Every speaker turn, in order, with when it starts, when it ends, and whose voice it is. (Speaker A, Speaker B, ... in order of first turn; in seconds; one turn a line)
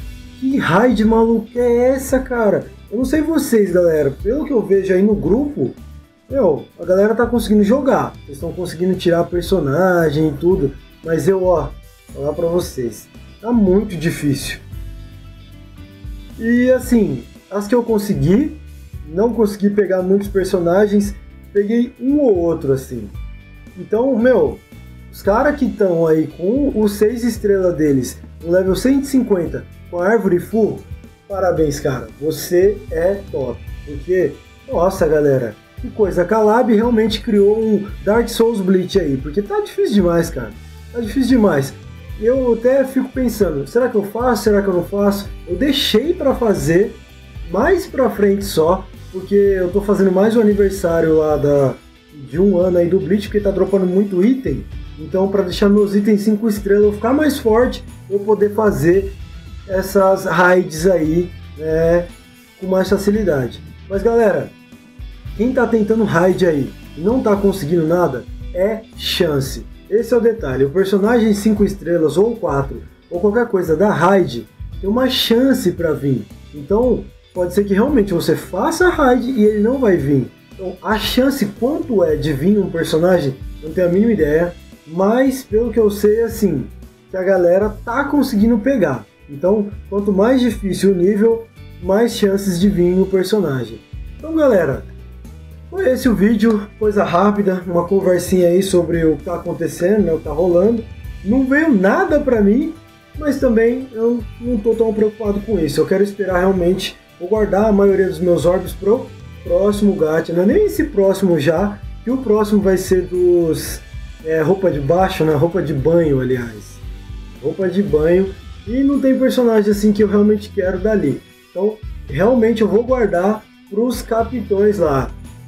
Speaker A: 0.3-14.6
Speaker A: 16.4-23.1
Speaker A: 23.7-64.5
Speaker A: 65.3-94.9
Speaker A: 95.7-116.8
Speaker A: 117.4-125.2